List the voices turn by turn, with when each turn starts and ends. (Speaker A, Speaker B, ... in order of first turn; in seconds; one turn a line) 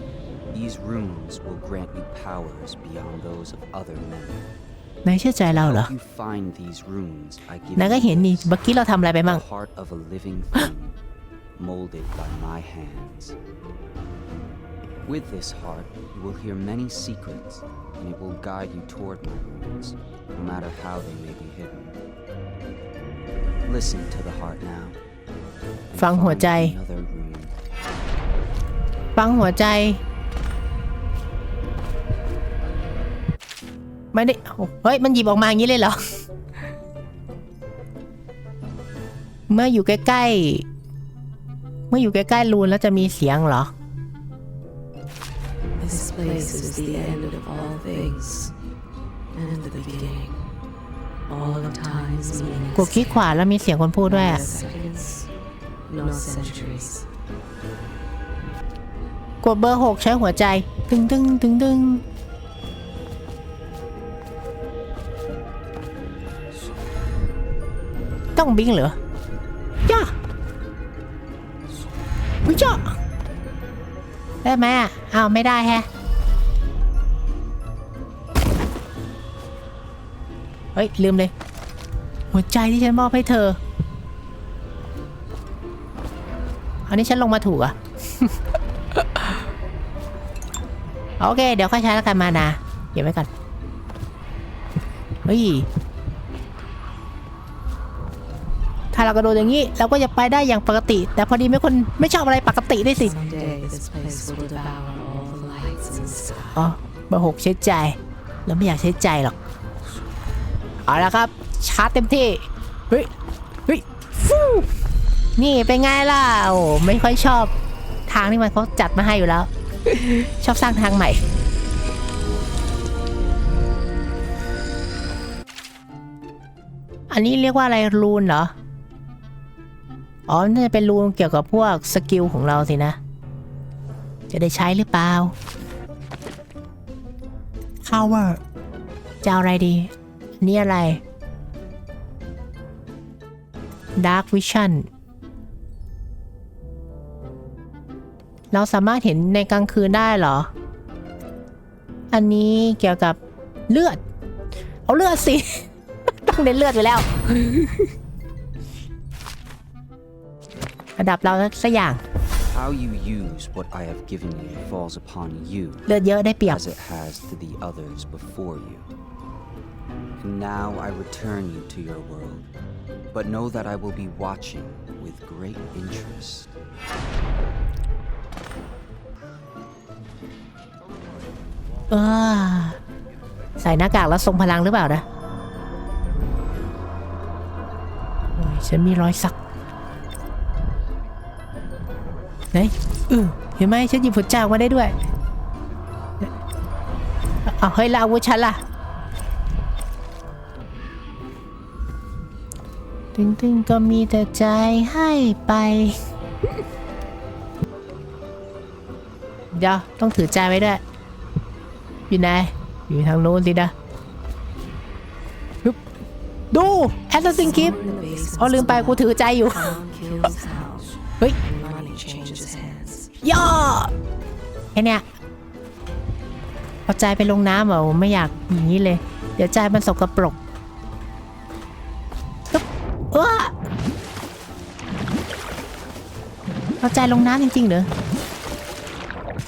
Speaker A: 0.5-4.5
Speaker B: 5.0-5.9
Speaker A: 5.5-11.0
Speaker B: 7.8-9.4
Speaker A: 11.6-13.4
Speaker A: 15.1-22.0
Speaker A: 23.6-25.0
Speaker A: 25.9-27.6
Speaker B: 25.9-26.8
Speaker B: 29.1-30.0
Speaker B: 34.1-36.0
Speaker B: 39.5-40.7
Speaker B: 41.9-43.7
Speaker C: 45.8-48.5
Speaker C: 49.3-50.4
Speaker C: 51.3-53.3
Speaker B: 52.8-54.5
Speaker C: 54.0-55.3
Speaker C: 55.9-57.1
Speaker B: 59.4-62.0
Speaker B: 68.3-69.0
Speaker B: 69.9-70.1
Speaker B: 72.5-73.0
Speaker B: 74.4-75.9
Speaker B: 80.8-81.3
Speaker B: 82.3-83.6
Speaker B: 86.9-88.4
Speaker B: 89.0-89.3
Speaker B: 91.2-93.3
Speaker B: 95.2-95.7
Speaker B: 98.9-103.2
Speaker C: 102.9-106.7
Speaker B: 106.5-109.4
Speaker B: 110.9-113.1
Speaker B: 113.7-114.7
Speaker B: 115.4-117.5
Speaker B: 118.1-121.2
Speaker B: 127.1-128.5
Speaker B: 130.3-133.0
Speaker B: 134.3-135.3
Speaker B: 137.8-138.4
Speaker B: 139.2-141.0
Speaker B: 144.0-144.9
Speaker B: 148.5-150.5
Speaker B: 152.1-153.2
Speaker B: 153.7-154.0
Speaker B: 154.9-155.7
Speaker B: 156.3-157.9
Speaker B: 161.0-162.0
Speaker A: 162.5-165.9
Speaker B: 165.9-166.6
Speaker A: 166.5-168.9
Speaker A: 170.2-172.5
Speaker A: 173.1-176.6
Speaker B: 181.9-182.8
Speaker B: 183.6-185.1
Speaker B: 188.4-189.4
Speaker B: 192.5-195.0
Speaker B: 197.4-198.6
Speaker B: 203.2-206.0
Speaker B: 209.5-210.8
Speaker B: 212.1-213.7
Speaker B: 216.5-217.8
Speaker C: 217.3-223.1
Speaker B: 218.4-219.8
Speaker B: 223.2-223.9
Speaker B: 224.7-225.0
Speaker B: 226.9-230.4
Speaker B: 232.5-233.5
Speaker B: 236.8-237.9